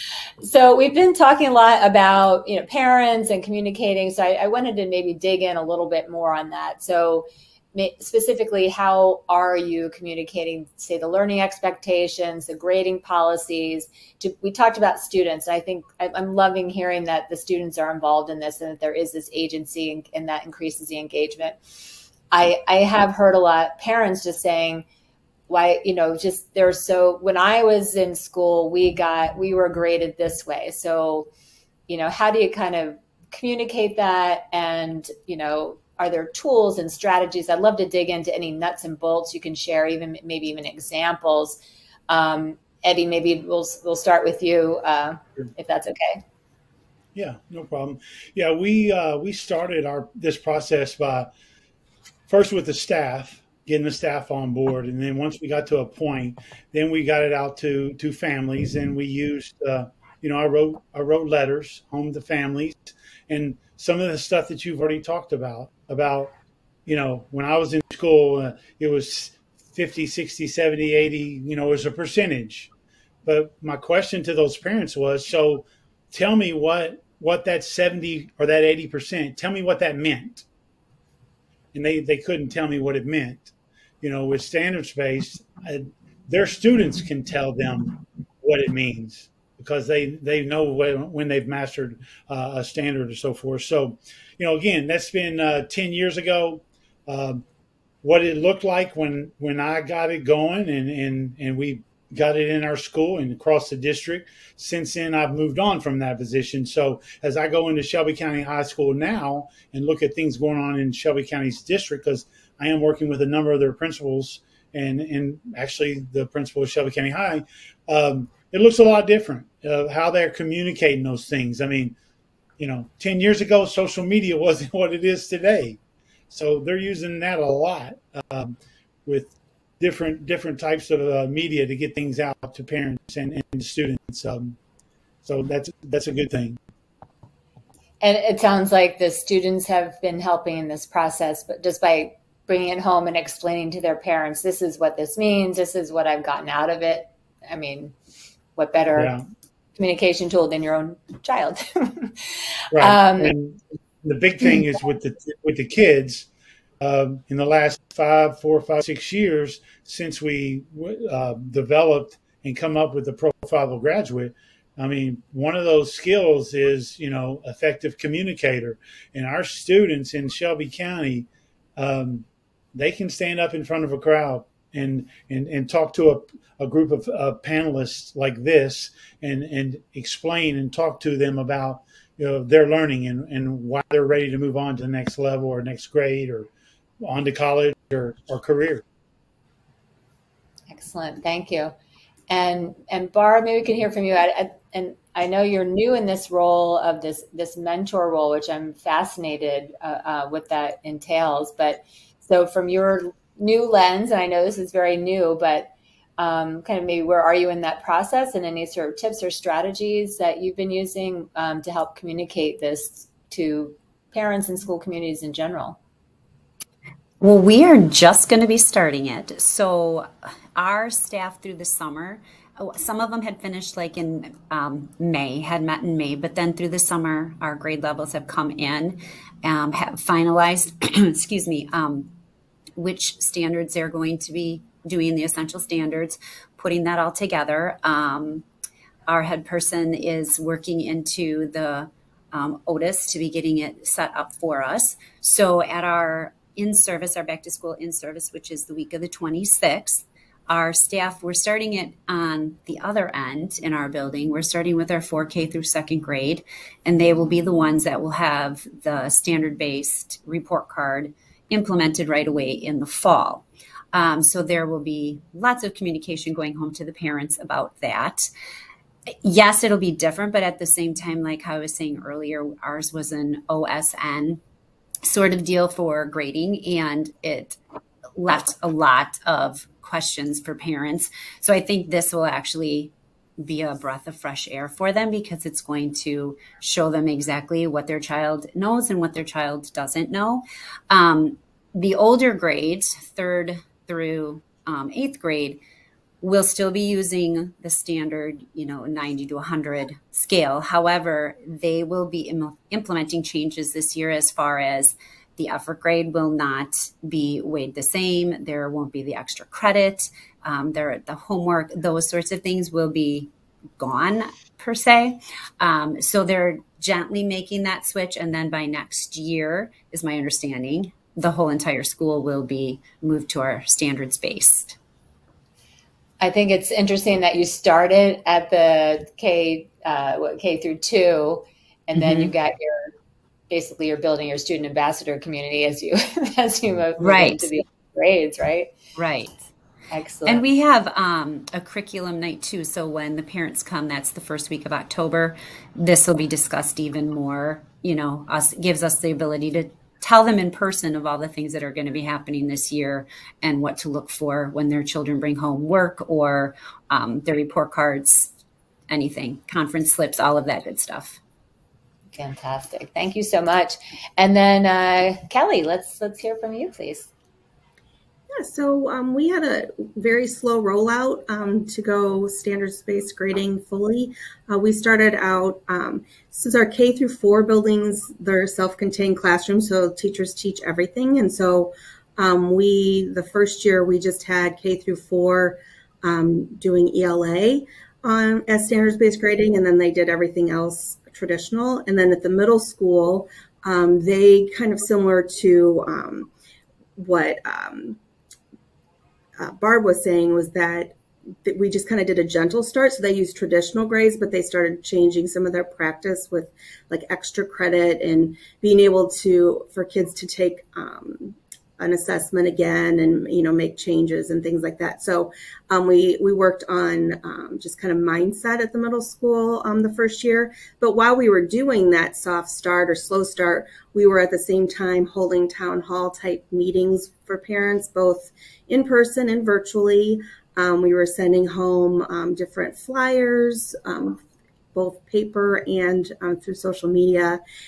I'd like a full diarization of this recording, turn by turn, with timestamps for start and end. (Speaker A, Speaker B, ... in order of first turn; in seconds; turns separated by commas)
Speaker A: 0.4-21.6, Speaker A: 22.3-24.9, Speaker A: 25.5-31.3, Speaker A: 31.9-46.2, Speaker B: 47.1-51.3, Speaker B: 52.3-66.3, Speaker B: 66.9-72.7, Speaker B: 73.2-80.4, Speaker B: 81.7-97.4, Speaker B: 98.0-122.0, Speaker B: 122.6-134.6, Speaker B: 135.2-136.6, Speaker A: 138.0-147.9, Speaker A: 148.6-149.1, Speaker B: 148.9-149.2, Speaker A: 149.8-153.3, Speaker B: 152.7-156.3, Speaker B: 156.8-186.5, Speaker B: 187.0-188.8, Speaker A: 190.7-191.7, Speaker A: 192.3-215.8, Speaker C: 217.2-232.1, Speaker C: 232.8-238.4, Speaker C: 239.1-268.3, Speaker C: 269.2-274.4, Speaker C: 275.0-277.6, Speaker C: 278.1-295.6, Speaker C: 296.2-324.8, Speaker A: 326.2-332.9, Speaker C: 332.0-332.3, Speaker A: 333.5-338.8, Speaker C: 337.0-337.5, Speaker C: 339.0-339.4, Speaker A: 339.9-340.4, Speaker C: 340.2-358.3, Speaker C: 358.9-361.2, Speaker A: 362.1-367.1, Speaker D: 368.3-396.3, Speaker D: 397.0-398.0, Speaker D: 399.4-434.2, Speaker D: 434.7-437.4